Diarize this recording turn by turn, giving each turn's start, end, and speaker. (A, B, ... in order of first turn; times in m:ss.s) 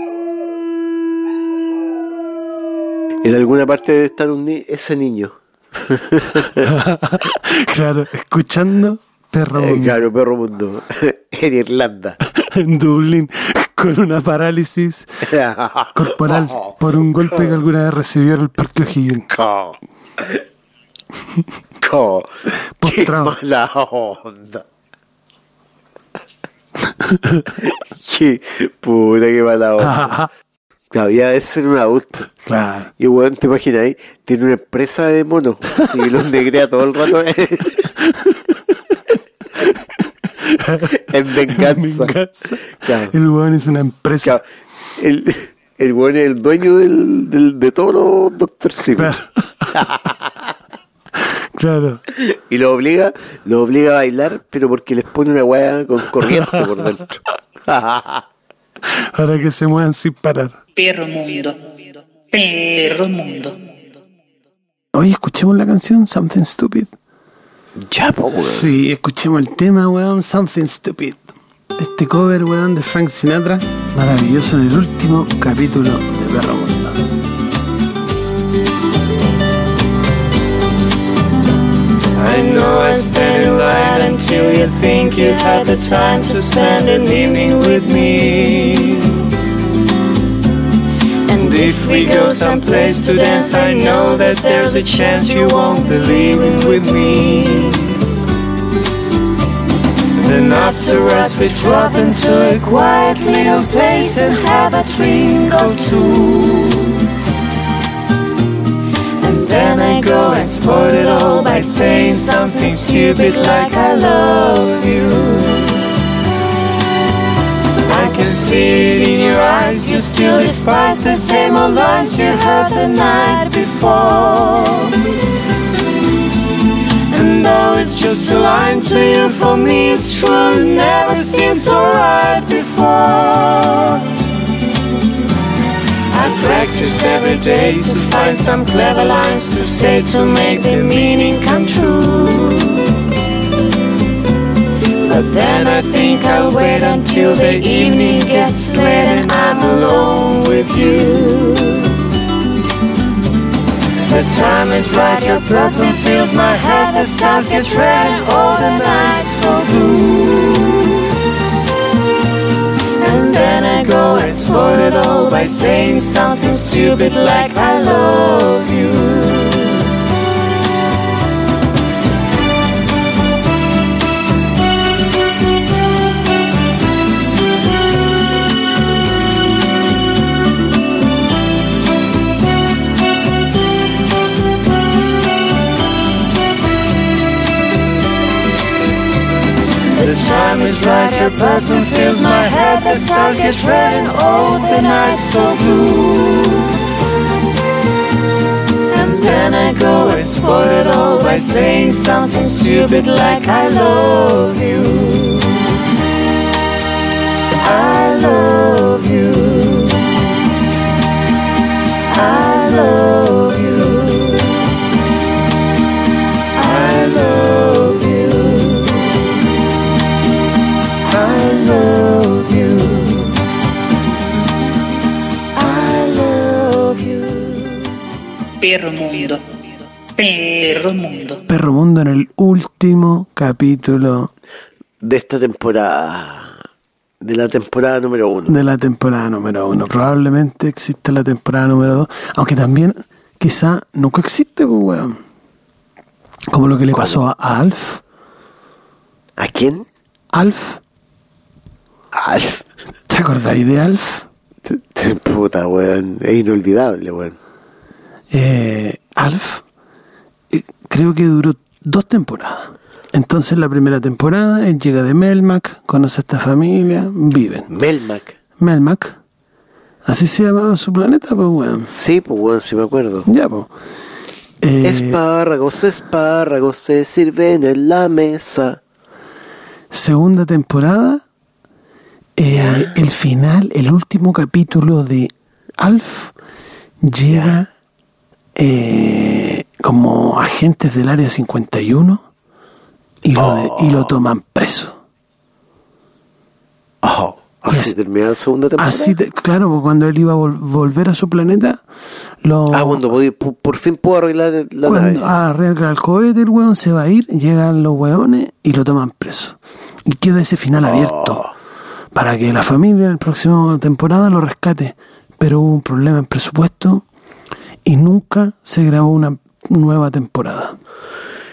0:03.2-0:06.7 A
0:06.6-0:10.0 B
0:09.5-0:12.2 A
0:12.3-0:15.3 B
0:15.2-0:17.5 A
0:15.9-0:19.3 B
0:19.3-0:20.4 A
0:21.8-0:22.3 A
0:22.8-0:23.4 B
0:22.8-0:24.6 A
0:26.8-0:27.6 B
0:27.6-0:30.2 A
0:29.8-0:30.3 B
0:30.9-0:32.3 A
0:32.4-0:32.9 B
0:33.0-0:37.9 A
0:38.0-0:39.0 B
0:40.4-0:44.4 B
0:40.9-0:42.2 A
0:42.7-0:43.1 A
0:45.0-0:49.1 A
0:49.0-0:49.8 B
0:49.7-0:50.5 A
0:51.1-0:52.0 B
0:52.1-0:58.2 A
0:56.2-0:56.6 B
0:58.8-1:00.6 B
1:00.8-1:03.6 C
1:04.9-1:06.9 B
1:07.8-1:08.7 A
1:08.4-1:17.1 B
1:22.2-1:29.2 D
1:31.2-1:37.9 D
1:40.2-1:47.0 D
1:49.2-1:55.9 D
1:57.9-2:05.1 D
2:07.1-2:14.0 D
2:16.1-2:22.9 D
2:25.0-2:32.0 D
2:34.1-2:41.0 D
2:43.0-2:49.8 D
3:09.9-3:16.7 D
3:18.9-3:25.7 D
3:27.6-3:30.1 D
3:32.1-3:34.6 D
3:36.5-3:39.2 D
3:41.0-3:43.3 D
3:45.5-3:47.9 D
3:48.6-3:49.4 C
3:50.1-3:51.4 C
3:51.5-3:54.3 B
3:55.0-3:56.6 A
3:57.2-3:58.5 A
3:58.5-4:05.2 B
4:06.5-4:08.0 B
4:06.9-4:07.2 A
4:09.4-4:09.8 A
4:10.3-4:10.8 B
4:12.1-4:12.6 A
4:13.1-4:14.2 B
4:14.6-4:17.4 A
4:18.3-4:19.6 B
4:20.5-4:27.7 B
4:27.7-4:28.4 A
4:28.6-4:29.2 B
4:30.0-4:31.9 B
4:31.8-4:33.3 A
4:33.2-4:33.7 B
4:34.6-4:35.2 B
4:34.8-4:38.8 A
4:39.9-4:41.2 B
4:42.4-4:46.3 B
4:42.5-4:42.9 A
4:47.0-4:47.7 B
4:47.3-4:47.6 A
4:48.6-4:52.2 B
4:53.2-4:55.0 B
4:53.4-4:54.1 A
4:57.0-4:59.2 A
4:57.7-4:57.9 B
4:58.8-5:01.8 B
5:02.4-5:03.0 B
5:02.7-5:05.3 A
5:04.8-5:11.4 B
5:10.8-5:11.5 A
5:12.1-5:17.0 B
5:17.8-5:20.8 B